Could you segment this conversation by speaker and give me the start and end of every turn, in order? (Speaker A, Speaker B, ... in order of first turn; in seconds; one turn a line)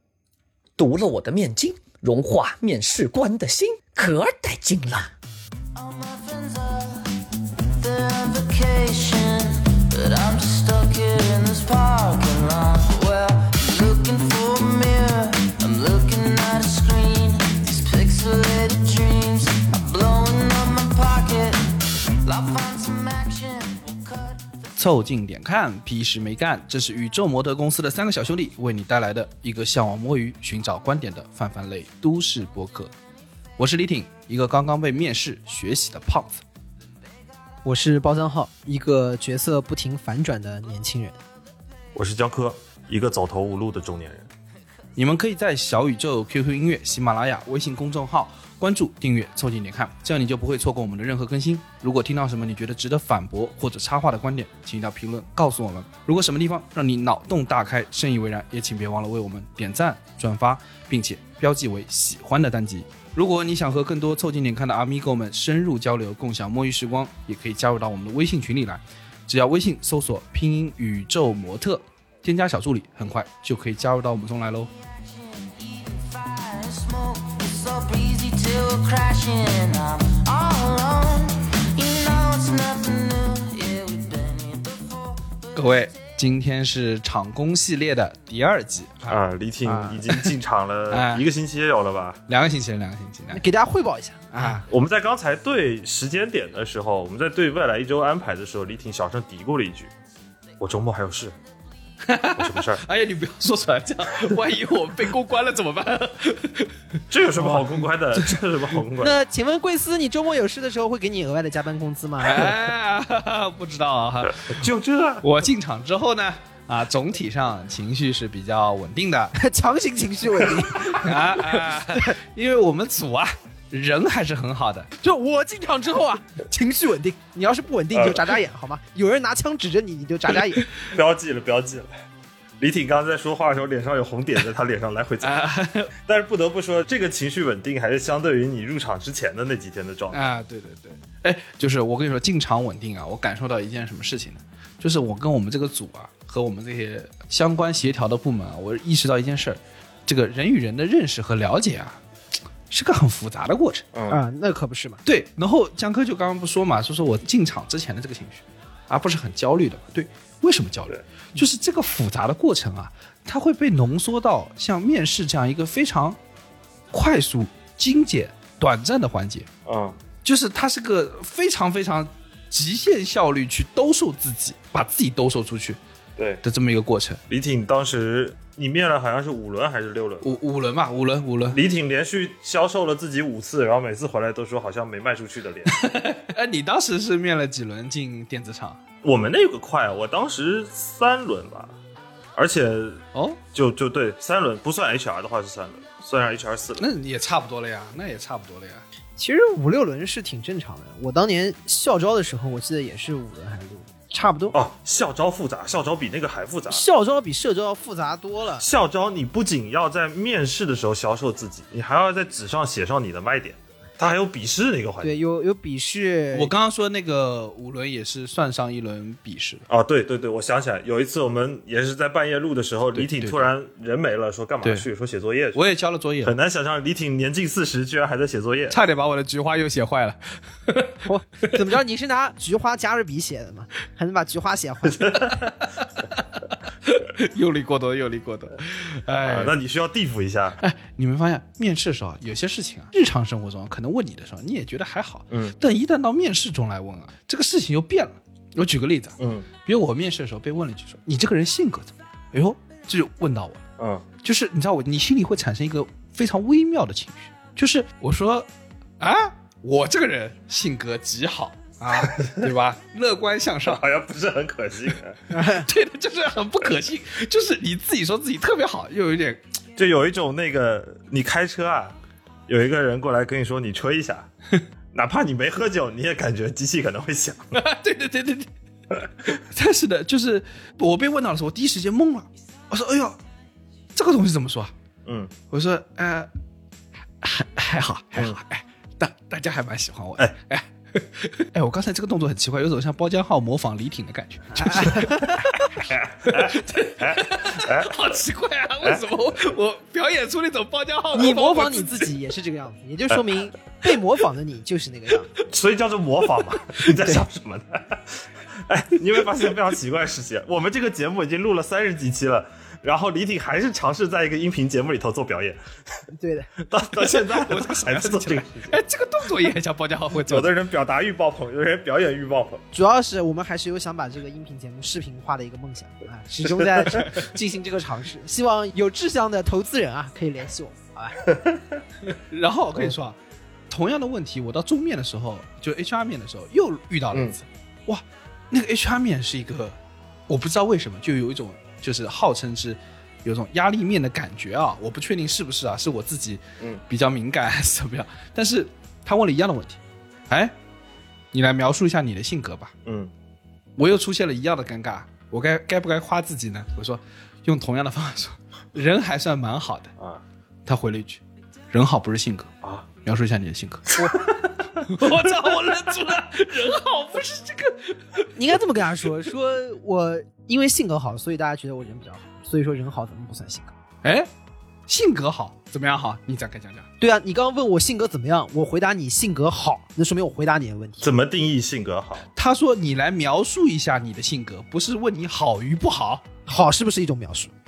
Speaker A: 0.8-5.1
Speaker B: 5.8-24.5
Speaker C: 24.8-32.9
Speaker C: 33.6-36.4
Speaker D: 37.6-41.2
Speaker E: 42.0-44.3
Speaker C: 45.0-74.7
Speaker B: 74.8-85.6
Speaker C: 85.5-89.2
Speaker E: 89.1-92.2
Speaker C: 90.9-91.2
Speaker C: 92.3-93.4
Speaker D: 93.3-94.2
Speaker C: 94.3-94.7
Speaker E: 94.7-99.9
Speaker E: 100.6-101.3
Speaker C: 102.0-106.8
Speaker E: 102.4-102.8
Speaker E: 107.1-109.2
Speaker D: 109.0-112.5
Speaker C: 112.2-114.6
Speaker E: 114.5-115.2
Speaker C: 115.2-119.3
Speaker D: 119.4-122.0
Speaker C: 121.0-124.9
Speaker D: 125.0-130.7
Speaker E: 127.9-128.3
Speaker E: 130.8-131.9
Speaker E: 132.6-135.4
Speaker C: 135.2-135.9
Speaker E: 136.0-140.2
Speaker C: 140.1-152.0
Speaker C: 152.7-153.9
Speaker E: 153.9-154.2
Speaker D: 154.1-155.0
Speaker C: 155.1-166.2
Speaker C: 166.9-169.5
Speaker E: 169.7-170.0
Speaker C: 170.2-175.8
Speaker E: 176.2-176.4
Speaker C: 176.4-177.2
Speaker E: 177.3-180.4
Speaker C: 180.2-181.6
Speaker E: 181.5-185.8
Speaker C: 185.7-188.8
Speaker E: 189.0-191.8
Speaker E: 192.3-193.0
Speaker C: 193.1-193.4
Speaker E: 193.5-196.8
Speaker C: 196.8-198.8
Speaker D: 199.2-204.6
Speaker E: 204.5-206.8
Speaker D: 206.7-208.7
Speaker E: 208.6-215.2
Speaker D: 215.0-216.5
Speaker C: 216.3-219.7
Speaker E: 219.7-225.6
Speaker C: 222.9-223.5
Speaker C: 225.5-226.3
Speaker E: 226.2-228.8
Speaker C: 228.7-231.5
Speaker D: 231.1-235.4
Speaker E: 234.9-235.4
Speaker C: 236.8-239.6
Speaker E: 239.2-240.6
Speaker C: 240.6-253.6
Speaker E: 245.3-245.6
Speaker E: 249.2-249.5
Speaker E: 253.8-254.1
Speaker C: 254.2-258.5
Speaker C: 259.0-263.8
Speaker E: 261.9-262.4
Speaker E: 263.7-265.2
Speaker D: 265.3-265.7
Speaker C: 265.5-269.4
Speaker E: 269.8-274.3
Speaker E: 274.9-277.6
Speaker C: 277.5-278.5
Speaker C: 279.4-283.2
Speaker C: 283.9-284.7
Speaker E: 285.1-285.3
Speaker C: 285.5-286.3
Speaker C: 287.2-295.6
Speaker D: 294.6-295.6
Speaker E: 295.8-298.1
Speaker C: 296.2-302.1
Speaker D: 301.1-305.3
Speaker E: 305.5-315.6
Speaker D: 316.1-316.5
Speaker E: 316.6-318.8
Speaker C: 317.0-320.5
Speaker E: 320.1-322.6
Speaker D: 322.7-331.3
Speaker C: 332.1-333.2
Speaker C: 333.7-339.8
Speaker C: 340.3-350.6
Speaker C: 351.3-352.8
Speaker E: 352.9-353.1
Speaker C: 353.8-359.9
Speaker C: 360.7-361.2
Speaker C: 361.7-362.5
Speaker C: 363.0-364.0
Speaker E: 364.2-365.3
Speaker C: 364.8-368.3
Speaker D: 368.4-373.7
Speaker C: 374.0-374.3
Speaker C: 374.9-376.9
Speaker D: 377.0-381.1
Speaker E: 381.0-382.3
Speaker C: 382.4-386.2
Speaker D: 386.5-387.5